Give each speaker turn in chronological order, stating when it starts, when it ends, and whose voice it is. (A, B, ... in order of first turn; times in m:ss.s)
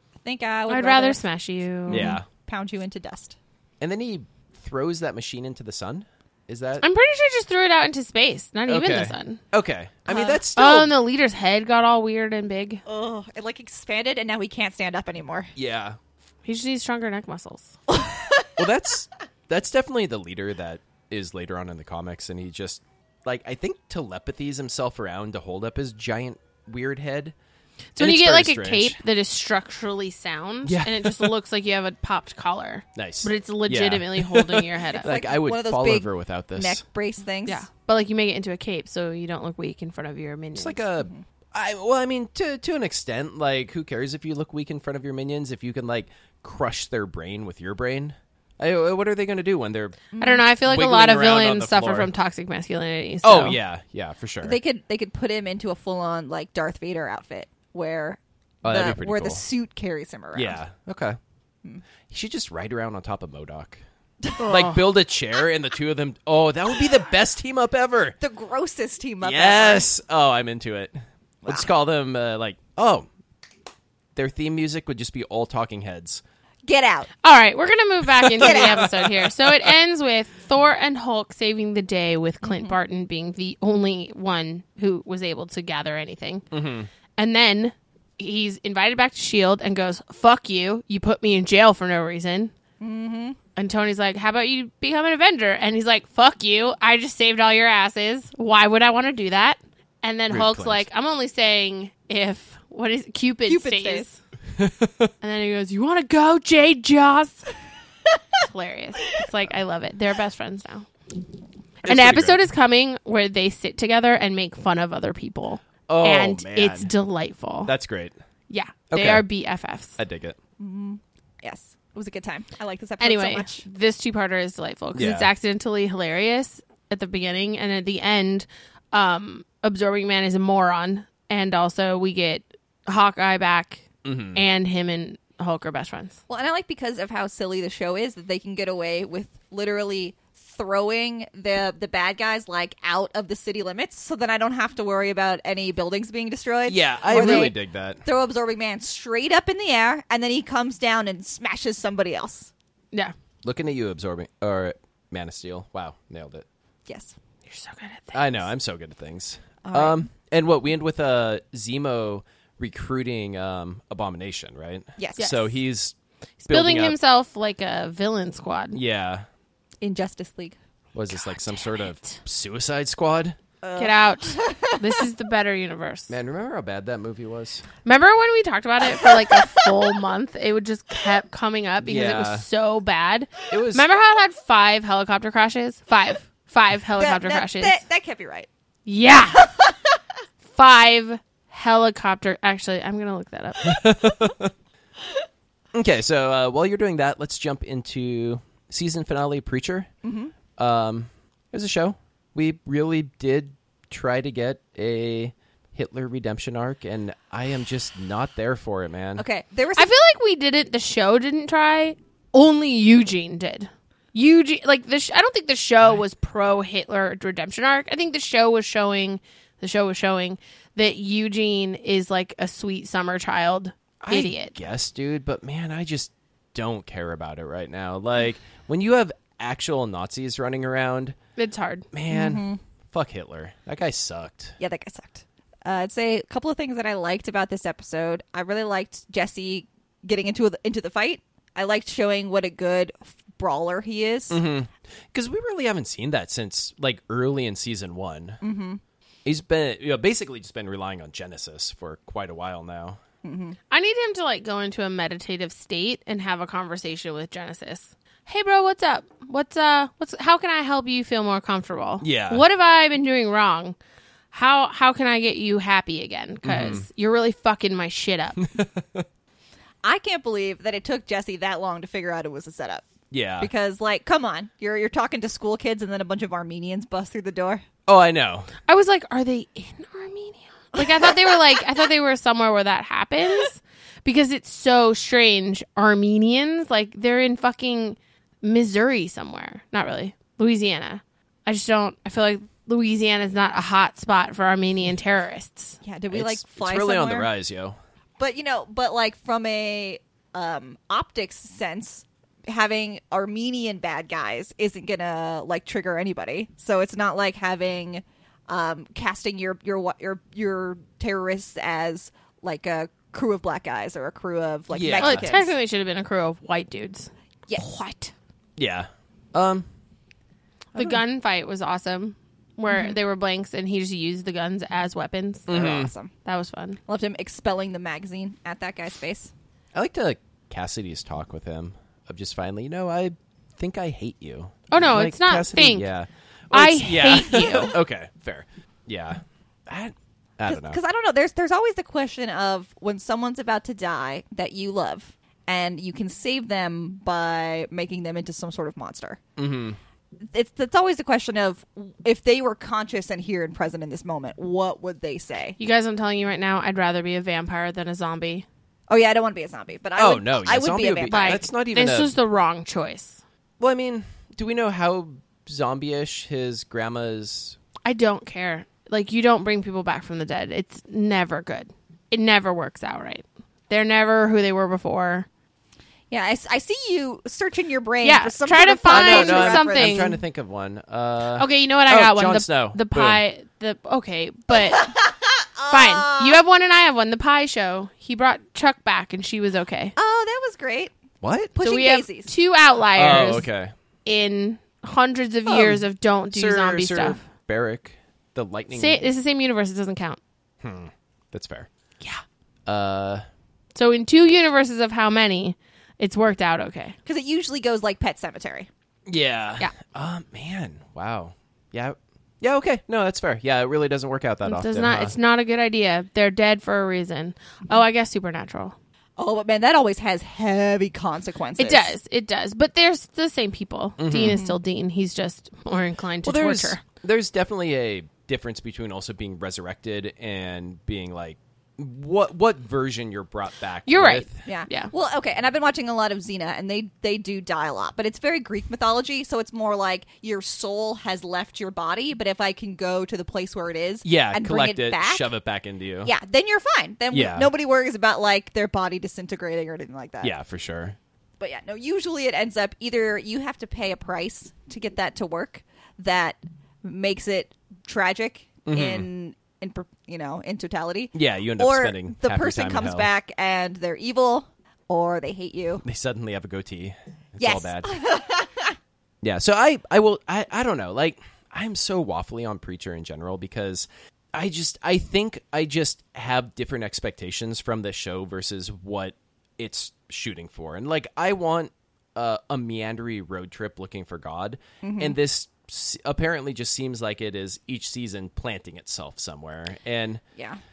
0:00.2-0:01.2 A
0:00.7-0:02.1 B
0:01.9-0:03.4 A
0:01.9-0:02.3 C
0:03.8-0:06.8 C
0:06.8-0:09.4 B
0:08.7-0:10.9 C
0:10.1-0:10.4 A
0:10.6-0:12.8 B
0:12.9-0:15.5 A
0:15.6-0:16.0 C
0:16.4-0:17.8 B
0:17.9-0:18.5 A
0:18.6-0:27.4 C
0:27.9-0:35.1 B
0:28.0-0:29.0 C
0:30.6-0:31.3 C
0:32.9-0:36.8 C
0:34.9-0:37.6 A
0:37.4-0:40.8 B
0:40.6-0:50.0 C
0:50.1-0:50.5 A
0:50.2-0:53.6 B
0:50.6-0:52.1 C
0:53.2-0:54.6 C
0:54.4-1:00.6 A
0:58.6-0:59.4 C
1:00.3-1:01.2 C
1:02.1-1:03.8 C
1:04.2-1:04.6 A
1:04.4-1:08.2 C
1:04.5-1:04.7 B
1:08.2-1:09.9 A
1:09.2-1:13.1 C
1:11.4-1:11.7 A
1:14.1-1:16.2 C
1:16.6-1:17.1 A
1:17.2-1:26.4 B
1:18.1-1:19.7 C
1:18.4-1:18.9 A
1:22.4-1:22.8 A
1:26.5-1:26.9 C
1:27.2-1:32.5 B
1:32.8-1:33.4 A
1:33.6-1:44.2 B
1:40.3-1:40.9 C
1:43.5-1:44.1 A
1:44.6-1:45.1 C
1:45.2-1:47.5 B
1:48.4-1:50.9 B
1:51.8-1:52.5 C
1:51.8-1:57.7 B
1:55.9-1:56.9 C
1:57.6-1:58.1 C
1:58.5-2:00.0 B
1:58.9-1:59.2 C
2:00.0-2:00.4 C
2:00.6-2:03.6 A
2:03.0-2:16.2 B
2:04.9-2:05.3 C
2:14.0-2:14.4 C
2:16.3-2:32.5 A
2:26.7-2:28.0 C
2:27.1-2:27.5 B
2:33.4-2:36.4 C
2:36.9-2:37.1 A
2:37.4-2:38.4 B
2:38.1-2:45.9 C
2:39.6-2:40.1 A
2:45.0-2:45.3 A
2:45.2-2:45.5 B
2:46.4-2:48.8 B
2:46.5-2:46.9 C
2:48.7-2:49.3 C
2:49.8-2:50.6 A
2:50.9-2:53.4 C
2:51.1-2:52.2 B
2:53.6-2:55.0 A
2:53.8-2:56.1 B
2:56.1-2:57.6 C
2:57.8-3:07.8 B
2:59.0-2:59.7 A
3:01.8-3:02.4 C
3:03.5-3:03.9 C
3:07.0-3:08.5 A
3:08.9-3:09.5 B
3:09.3-3:10.0 A
3:10.5-3:13.8 B
3:13.6-3:14.5 C
3:15.7-3:19.9 C
3:20.0-3:20.3 A
3:20.6-3:29.2 C
3:29.2-3:29.9 A
3:29.8-3:44.6 B
3:44.0-3:51.2 C
3:51.4-3:51.9 B
3:51.9-3:54.6 C
3:52.1-3:52.6 A
3:54.6-4:04.4 A
4:04.3-4:08.4 C
4:08.4-4:08.8 A
4:09.2-4:13.0 C
4:13.2-4:13.6 A
4:13.7-4:23.8 B
4:22.0-4:22.4 C
4:24.3-4:28.4 B
4:26.4-4:26.9 C
4:28.4-4:29.1 C
4:29.8-4:37.6 A
4:33.1-4:33.5 C
4:37.9-4:38.5 C
4:38.7-4:55.8 B
4:40.8-4:41.6 A
4:55.8-4:57.3 A
4:56.1-4:57.8 C
4:58.2-5:15.5 A
5:14.7-5:15.3 C
5:15.0-5:18.1 B
5:18.6-5:19.6 C
5:20.8-5:25.7 B
5:22.7-5:23.0 A
5:25.5-5:25.9 C
5:25.5-5:26.1 A
5:26.2-5:26.8 B
5:26.9-5:29.3 A
5:29.7-5:40.8 C
5:34.7-5:35.9 B
5:36.5-5:37.7 B
5:40.5-5:49.2 A
5:49.4-5:49.8 C
5:50.3-5:55.6 A
5:55.6-5:58.4 B
5:58.9-6:01.4 A
6:00.0-6:02.1 C
6:01.1-6:03.2 B
6:03.6-6:07.6 C
6:07.8-6:15.3 B
6:16.1-6:20.1 A
6:18.0-6:20.2 B
6:18.9-6:23.2 C
6:21.4-6:24.9 B
6:24.5-6:26.4 A
6:25.7-6:29.9 B
6:30.0-6:30.9 A
6:31.2-6:31.6 C
6:31.6-6:32.3 A
6:31.6-6:33.5 B
6:32.9-6:33.7 C
6:34.0-6:37.2 B
6:35.5-6:35.8 C
6:36.3-6:39.0 C
6:38.7-6:40.2 B
6:40.6-6:41.7 C
6:42.6-6:43.2 C
6:43.8-6:47.0 B
6:47.1-6:48.7 A
6:49.1-6:55.1 C
6:54.4-6:58.8 B
6:59.2-7:01.9 A
7:01.6-7:06.8 B
7:04.0-7:04.4 C
7:04.2-7:04.6 A
7:06.2-7:14.4 C
7:13.9-7:14.9 B
7:14.4-7:25.3 A
7:24.0-7:26.1 C
7:26.0-7:30.4 A
7:27.1-7:27.5 C
7:30.2-7:31.0 C
7:31.4-7:45.8 A
7:38.7-7:39.1 C
7:41.1-7:43.1 C
7:45.8-7:47.9 C
7:47.4-7:48.8 A
7:49.2-8:10.2 C
8:04.8-8:05.2 A